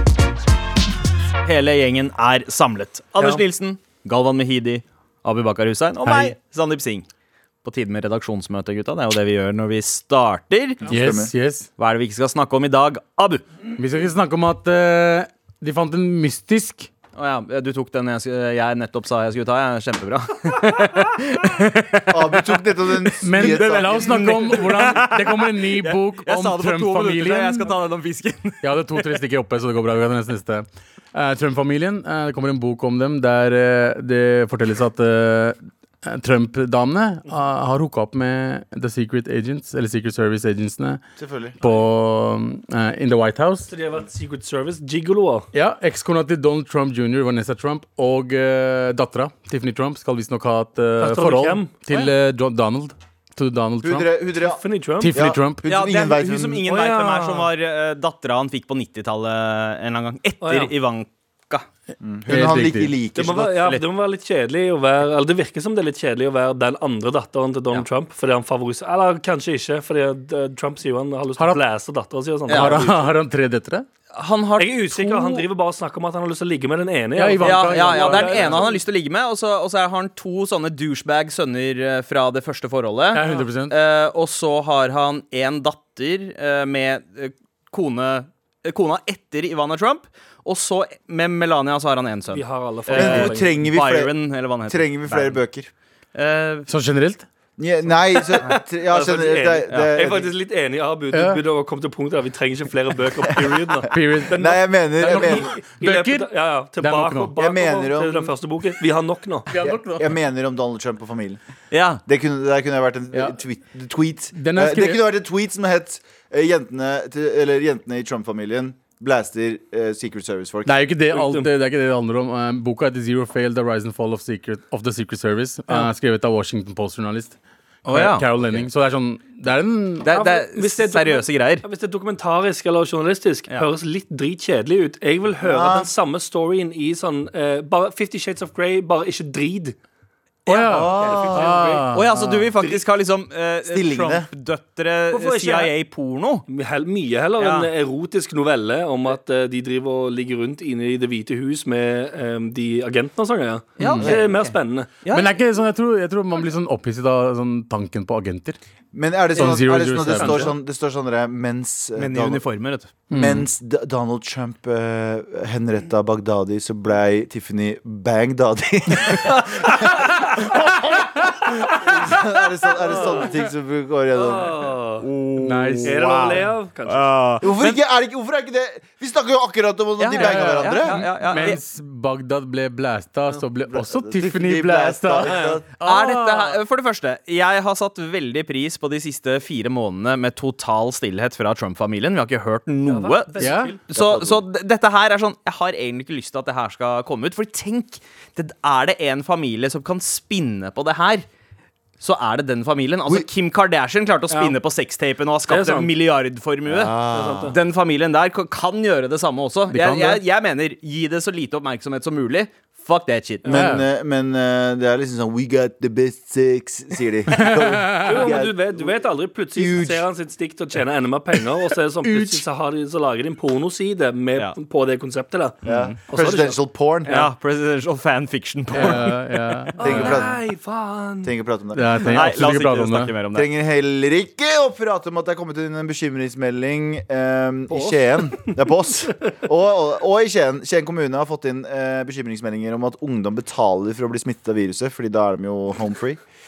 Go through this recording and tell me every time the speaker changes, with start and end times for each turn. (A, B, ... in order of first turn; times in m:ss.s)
0:01.4-0:07.1 A
0:06.0-0:06.4 B
0:07.6-0:10.8 A
0:10.9-0:11.7 B
0:10.9-0:11.3 C
0:11.8-0:13.6 A
0:13.8-0:16.9 B
0:17.2-0:22.4 A
0:22.1-0:24.6 C
0:23.0-0:29.1 A
0:23.2-0:27.7 B
0:28.6-0:41.0 B
0:41.2-0:41.6 C
0:41.6-0:43.7 B
0:43.7-0:45.5 D
0:45.5-0:54.1 B
0:51.0-0:51.7 D
0:53.8-0:54.6 C
0:54.4-0:55.2 D
0:55.0-0:55.7 B
0:55.1-0:56.7 C
0:55.7-1:01.7 A
0:56.7-0:57.5 D
1:00.4-1:00.7 D
1:02.0-1:03.7 C
1:02.3-1:02.9 B
1:03.2-1:13.1 D
1:12.5-1:12.8 A
1:12.5-1:13.9 B
1:14.1-1:15.5 A
1:14.6-1:18.8 D
1:17.2-1:18.6 B
1:17.4-1:35.4 A
1:23.1-1:23.5 D
1:23.1-1:23.8 B
1:32.3-1:33.5 D
1:33.0-1:34.1 C
1:34.7-1:35.7 C
1:36.1-1:36.7 A
1:36.7-1:37.3 B
1:37.6-1:40.3 C
1:38.2-1:38.6 A
1:38.9-1:43.9 D
1:41.1-1:41.4 B
1:43.9-1:47.3 B
1:44.3-1:45.5 C
1:45.0-1:49.5 D
1:47.4-1:48.3 C
1:49.5-1:50.1 B
1:49.6-1:51.4 C
1:51.7-1:52.0 A
1:52.0-2:00.8 C
1:54.4-1:55.0 B
2:00.6-2:10.1 B
2:01.1-2:01.5 D
2:07.8-2:08.7 A
2:10.0-2:11.6 A
2:10.1-2:19.8 D
2:15.4-2:15.9 C
2:20.5-2:21.4 A
2:20.5-2:22.2 B
2:20.6-2:21.8 D
2:20.7-2:22.8 C
2:21.9-2:26.4 A
2:23.7-2:24.3 C
2:25.1-2:25.7 D
2:26.5-2:34.9 D
2:27.4-2:27.7 A
2:33.8-2:35.3 A
2:33.8-2:34.1 B
2:35.1-2:38.6 B
2:38.9-2:42.4 C
2:39.4-2:40.5 B
2:40.2-2:40.5 D
2:42.0-2:43.0 A
2:43.1-2:43.5 B
2:43.1-2:54.7 C
2:49.3-2:50.6 D
2:52.8-2:53.3 D
2:54.1-2:55.1 D
2:55.0-2:56.3 A
2:55.4-2:56.4 B
2:55.8-2:57.1 D
2:56.0-2:56.4 C
2:56.9-2:57.8 A
2:57.4-3:01.0 C
3:00.0-3:01.6 A
3:00.1-3:06.6 B
3:03.6-3:05.6 C
3:05.2-3:05.6 D
3:05.8-3:21.2 A
3:12.9-3:13.8 D
3:13.4-3:13.8 B
3:13.9-3:14.4 C
3:22.0-3:27.0 A
3:25.5-3:25.9 D
3:26.7-3:27.6 C
3:27.1-3:27.6 D
3:27.5-3:33.5 A
3:29.7-3:30.2 B
3:33.5-3:33.9 B
3:33.5-3:39.0 C
3:37.3-3:38.3 B
3:38.0-3:45.6 D
3:39.6-3:40.0 C
3:42.0-3:42.4 B
3:45.6-3:46.0 A
3:45.6-3:47.1 C
3:46.1-3:47.3 D
3:47.1-3:49.6 A
3:48.7-3:50.3 B
3:49.8-3:51.4 D
3:49.8-3:50.4 C
3:51.2-3:52.3 C
3:51.7-3:53.1 B
3:52.0-3:53.5 A
3:53.3-4:06.2 C